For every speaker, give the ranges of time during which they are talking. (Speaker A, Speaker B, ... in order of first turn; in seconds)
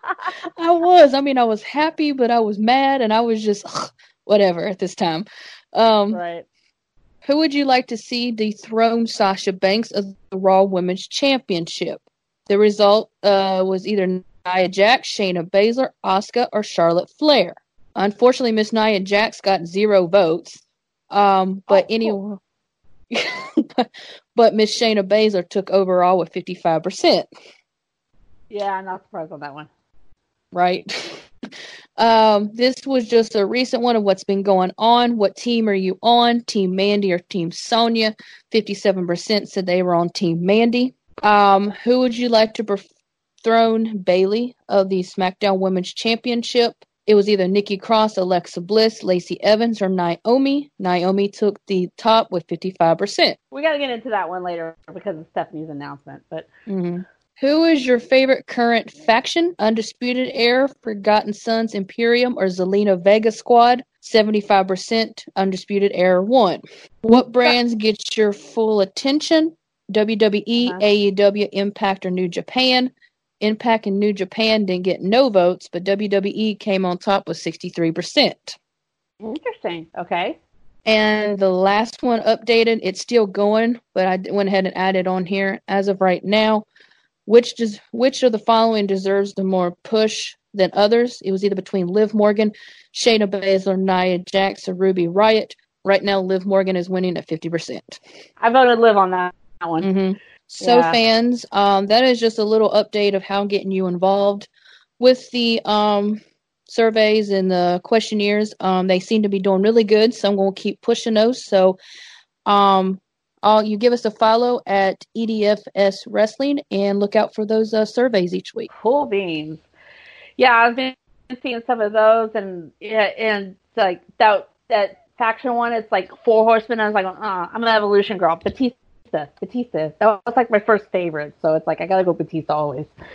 Speaker A: 0.6-6.2, 7.2-22.4, 23.1-27.3, 30.5-31.2, 32.0-42.8, 43.4-53.4, 56.7-78.6, 80.8-86.7, 87.2-98.0, 99.8-111.8, 112.5-118.7
Speaker B: 6.1-6.4, 21.7-22.1, 28.5-29.7, 53.5-56.5, 70.6-70.8, 79.2-80.4, 98.4-99.9, 100.6-101.0, 118.7-119.6, 120.4-132.9